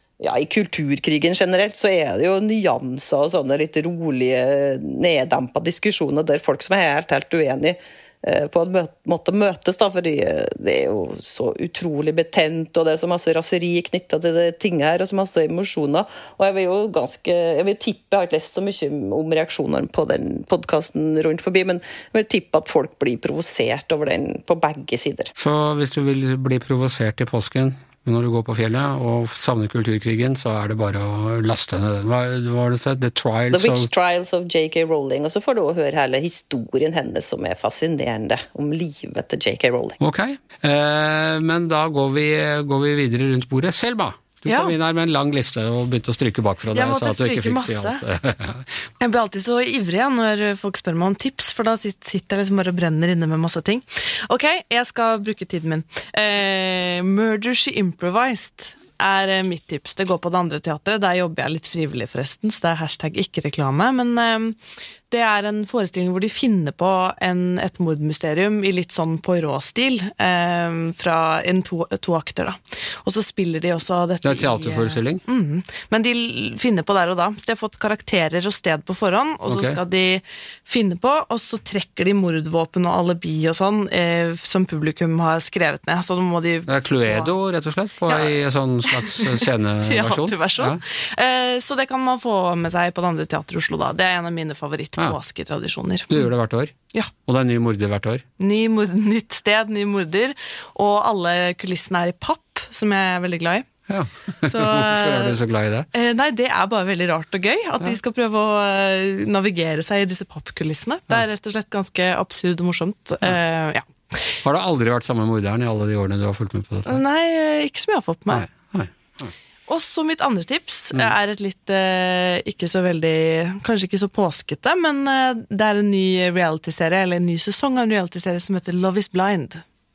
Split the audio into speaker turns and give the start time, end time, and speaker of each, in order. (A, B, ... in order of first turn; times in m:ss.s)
0:00.2-0:25.3 A
0:25.4-0:33.9 B
0:33.5-0:40.0 A
0:40.0-0:48.8 B
0:44.4-0:44.7 C
0:46.7-0:48.0 C
0:49.0-1:04.6 C
1:05.1-1:27.3 C
1:14.2-1:15.2 B
1:19.5-1:19.8 B
1:26.7-1:30.8 B
1:28.0-1:36.3 C
1:36.1-1:36.7 B
1:37.2-1:38.2 B
1:38.4-1:43.7 C
1:43.9-1:45.9 B
1:44.4-1:45.4 C
1:45.9-1:54.3 C
1:54.4-1:57.0 B
1:56.9-1:58.4 C
1:58.3-1:59.3 B
1:59.7-2:09.6 C